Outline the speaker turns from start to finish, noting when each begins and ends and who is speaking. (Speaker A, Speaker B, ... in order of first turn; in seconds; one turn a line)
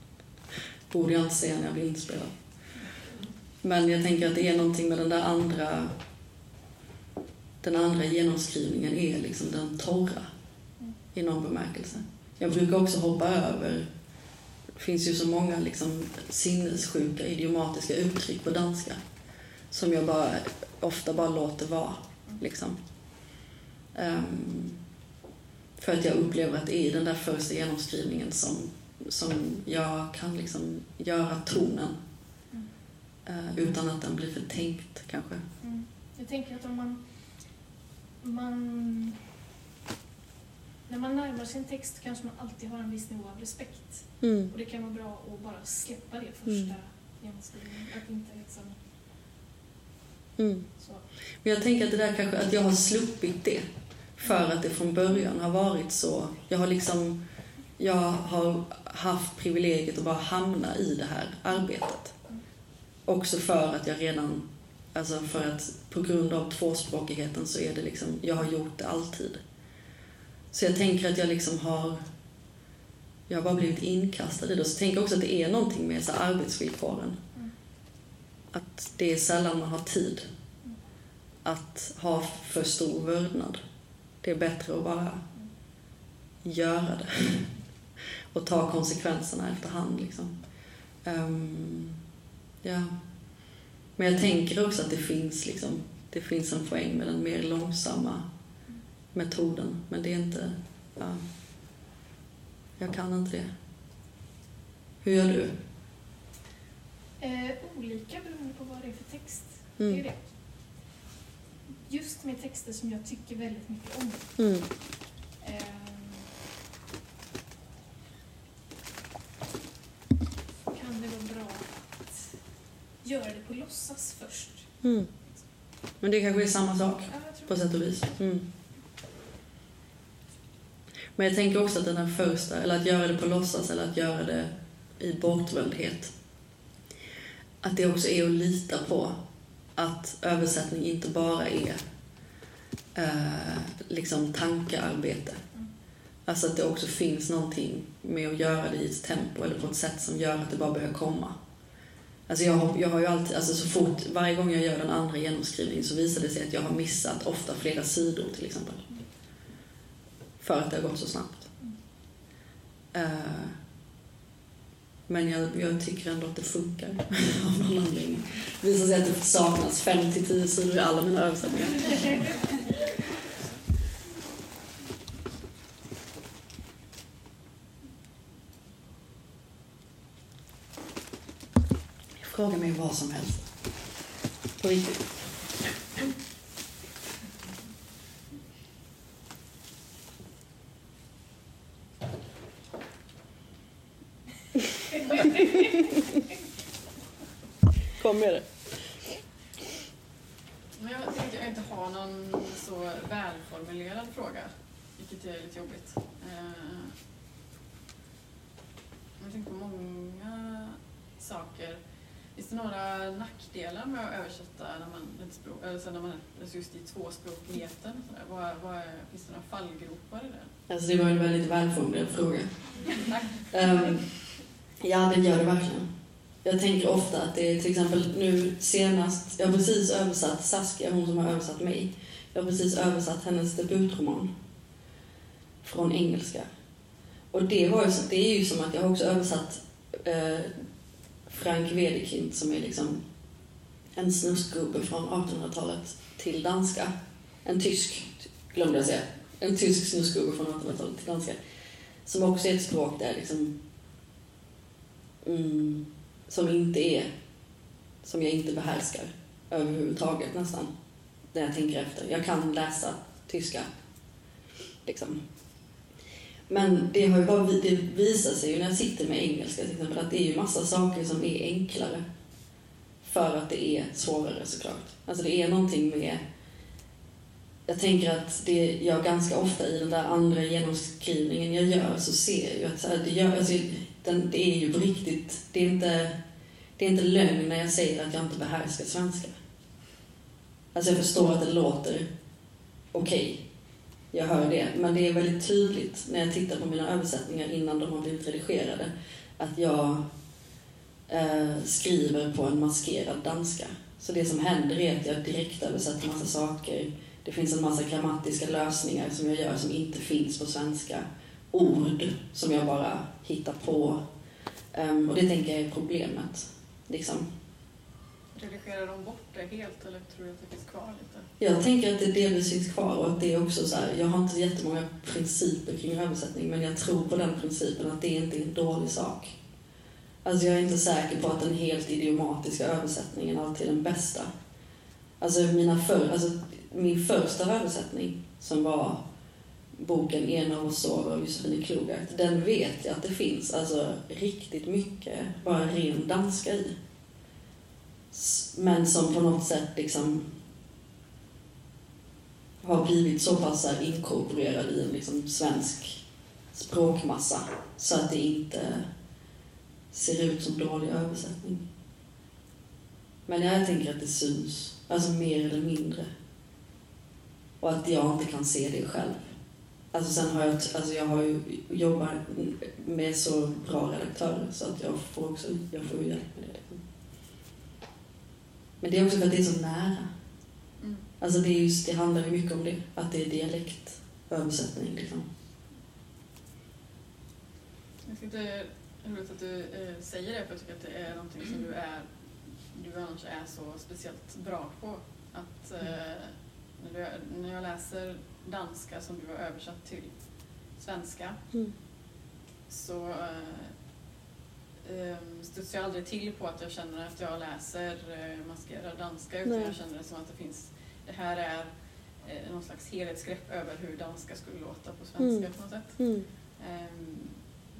Speaker A: 0.9-2.3
Speaker A: 3.6-5.9
Speaker A: 7.6-10.3
Speaker A: 11.1-13.9
Speaker A: 14.8-19.0
Speaker A: 19.7-22.8
Speaker A: 23.9-24.8
Speaker A: 25.8-32.0
Speaker A: 33.3-35.4
Speaker B: 35.6-37.0
Speaker B: 38.2-39.2
Speaker B: 40.9-48.8
Speaker A: 44.2-44.5
Speaker A: 46.5-46.8
Speaker A: 50.4-50.7
Speaker A: 51.4-53.6
Speaker A: 54.2-57.2
Speaker A: 57.8-62.2
Speaker A: 63.1-69.4
Speaker A: 70.5-72.0
Speaker A: 73.3-77.2
Speaker A: 78.5-80.3
Speaker A: 81.5-83.6
Speaker A: 84.2-85.2
Speaker A: 86.4-87.5
Speaker A: 88.3-90.3
Speaker A: 91.0-92.0
Speaker A: 92.6-93.0
Speaker A: 94.0-98.2
Speaker A: 99.1-101.2
Speaker A: 102.8-103.5
Speaker A: 105.0-105.6
Speaker B: 107.2-110.2
Speaker A: 109.8-110.0
Speaker B: 111.9-114.3
Speaker A: 114.4-114.7
Speaker B: 115.4-116.3
Speaker B: 120.7-122.2
Speaker B: 123.0-124.7
Speaker A: 124.8-125.1
Speaker A: 126.0-128.5
Speaker B: 127.1-127.5
Speaker A: 131.2-136.1
Speaker A: 137.6-139.2
Speaker A: 139.8-141.8
Speaker A: 142.9-145.4
Speaker A: 146.3-151.3
Speaker A: 152.3-158.8
Speaker A: 160.4-161.5
Speaker A: 162.9-163.6
Speaker A: 165.1-172.2
Speaker A: 182.2-183.5
Speaker A: 184.6-185.1
Speaker B: 195.2-195.6
Speaker A: 198.0-198.8
Speaker C: 200.8-206.9
Speaker C: 209.2-211.8
Speaker C: 212.3-220.5
Speaker A: 220.7-222.5
Speaker A: 223.5-225.9
Speaker A: 226.4-234.3
Speaker A: 235.6-236.5
Speaker A: 237.3-240.6
Speaker A: 241.3-243.0
Speaker A: 244.0-246.9
Speaker A: 247.4-251.4
Speaker A: 252.1-253.6
Speaker A: 255.2-257.1
Speaker A: 258.0-260.7
Speaker A: 261.3-263.7
Speaker A: 264.9-265.2
Speaker A: 266.5-272.0
Speaker A: 273.0-276.2
Speaker A: 277.7-286.1
Speaker A: 286.8-289.3
Speaker A: 290.7-292.1
Speaker A: 292.9-293.4
Speaker A: 294.1-300.1
Speaker A: 301.1-314.0
Speaker A: 314.7-317.3
Speaker C: 318.4-321.3
Speaker A: 321.4-329.4
Speaker A: 330.2-334.3
Speaker A: 335.2-339.0
Speaker A: 339.8-346.8
Speaker A: 348.1-350.3
Speaker A: 352.6-356.0
Speaker A: 356.5-358.9
Speaker A: 359.9-361.6
Speaker A: 363.3-366.1
Speaker A: 367.6-369.2
Speaker A: 369.9-376.8
Speaker A: 378.8-380.1
Speaker C: 380.8-381.1
Speaker A: 381.2-385.3
Speaker C: 388.1-401.4
Speaker C: 402.7-403.8
Speaker C: 404.8-416.1
Speaker A: 409.4-409.7
Speaker A: 415.2-416.3
Speaker C: 416.6-417.4